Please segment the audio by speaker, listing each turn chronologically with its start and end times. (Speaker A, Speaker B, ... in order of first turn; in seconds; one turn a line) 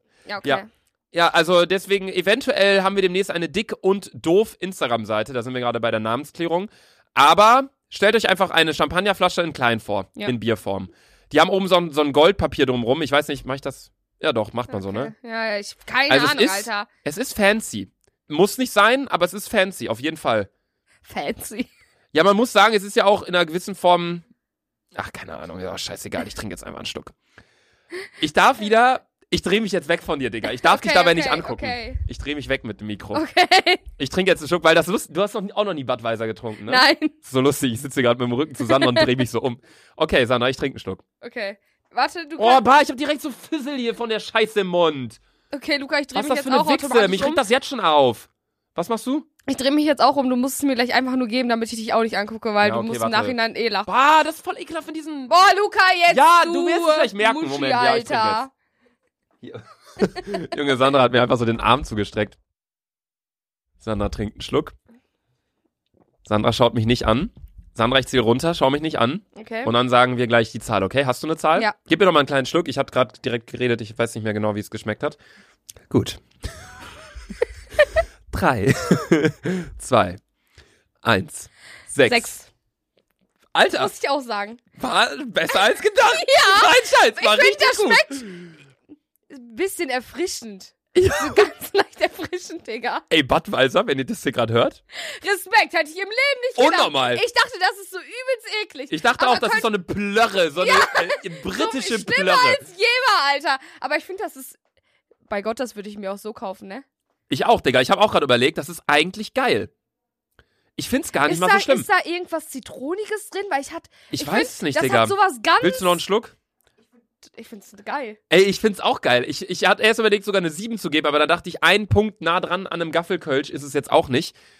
Speaker A: 0.2-0.7
Speaker B: 0.4-15.1
Speaker A: 14.7-16.9
Speaker B: 16.1-20.5
Speaker A: 21.1-21.7
Speaker B: 22.1-24.2
Speaker B: 24.9-27.1
Speaker B: 28.2-33.2
Speaker A: 30.6-32.0
Speaker A: 33.1-33.8
Speaker B: 34.0-41.0
Speaker A: 36.7-37.1
Speaker A: 38.6-39.0
Speaker A: 41.2-42.6
Speaker B: 42.4-45.2
Speaker A: 45.5-47.4
Speaker B: 46.1-49.2
Speaker A: 49.5-53.9
Speaker B: 52.6-55.3
Speaker A: 55.3-58.5
Speaker B: 56.1-58.4
Speaker B: 59.4-62.4
Speaker B: 63.8-64.7
Speaker B: 66.2-75.2
Speaker A: 69.3-69.7
Speaker B: 75.9-76.2
Speaker B: 78.3-80.2
Speaker B: 81.0-82.3
Speaker A: 82.0-82.5
Speaker B: 83.5-83.9
Speaker A: 83.7-84.6
Speaker B: 84.8-88.5
Speaker A: 86.1-88.4
Speaker A: 89.3-93.0
Speaker B: 90.9-91.5
Speaker B: 93.1-94.8
Speaker A: 94.9-99.7
Speaker B: 96.6-97.2
Speaker B: 98.9-102.6
Speaker A: 100.6-104.6
Speaker A: 105.3-106.8
Speaker B: 107.3-109.7
Speaker B: 110.8-111.9
Speaker A: 111.2-116.0
Speaker B: 114.1-116.3
Speaker A: 117.2-118.2
Speaker B: 118.3-124.3